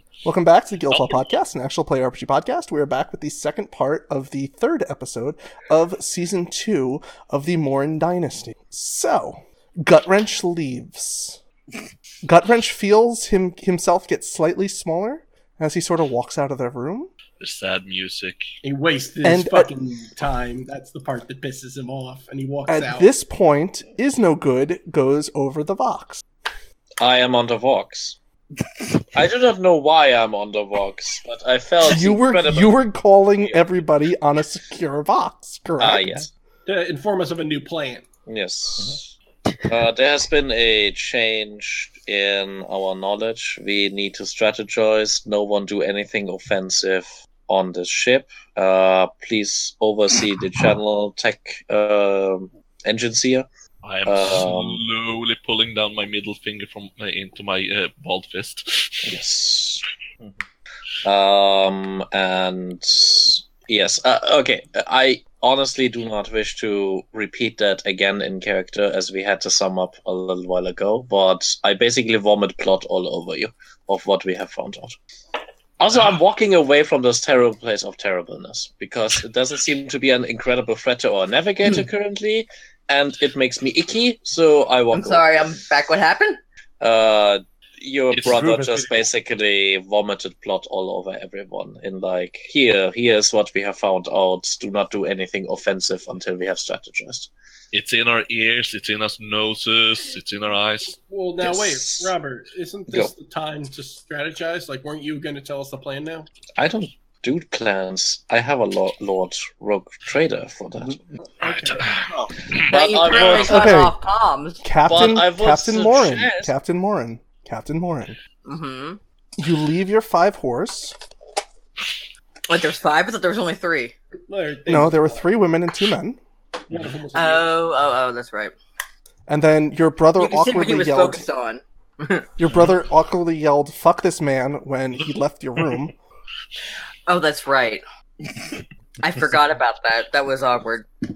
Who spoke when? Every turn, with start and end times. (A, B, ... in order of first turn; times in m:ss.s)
0:00.2-0:11.4 A
0:00.9-0:01.3 B
0:12.2-0:17.1 A
0:17.4-0:18.4 B
0:18.6-0:23.1 C
0:19.2-0:19.7 A
0:22.7-0:26.2 A
0:27.0-0:28.2 D
0:29.1-0:32.7 D
0:31.8-0:36.2 A
0:35.8-0:36.3 D
0:36.6-0:38.0 C
0:38.3-0:39.0 D
0:39.7-0:53.5 D
0:53.8-0:59.0 B
0:54.0-0:54.8 D
0:59.0-0:59.8 D
1:01.0-1:15.0 D
1:15.8-1:25.2 D
1:24.9-1:26.4 E
1:26.8-1:37.3 D
1:28.1-1:29.1 B
1:37.7-1:41.0 B
1:41.0-1:46.3 C
1:41.4-1:42.1 D
1:42.9-1:43.1 D
1:46.6-1:51.0 D
1:51.4-1:53.5 B
1:52.5-1:53.8 D
1:52.7-1:54.6 E
1:53.4-1:54.0 A
1:54.6-1:58.2 A
1:54.9-1:56.5 D
1:58.4-1:59.0 E
1:59.4-2:01.0 A
2:02.5-2:03.9 E
2:04.3-2:05.3 C
2:04.7-2:06.2 A
2:06.7-2:07.5 C
2:07.1-2:08.5 E
2:09.3-2:11.2 A
2:10.2-2:12.3 E
2:12.4-2:15.9 A
2:17.1-2:17.8 E
2:19.0-2:20.9 E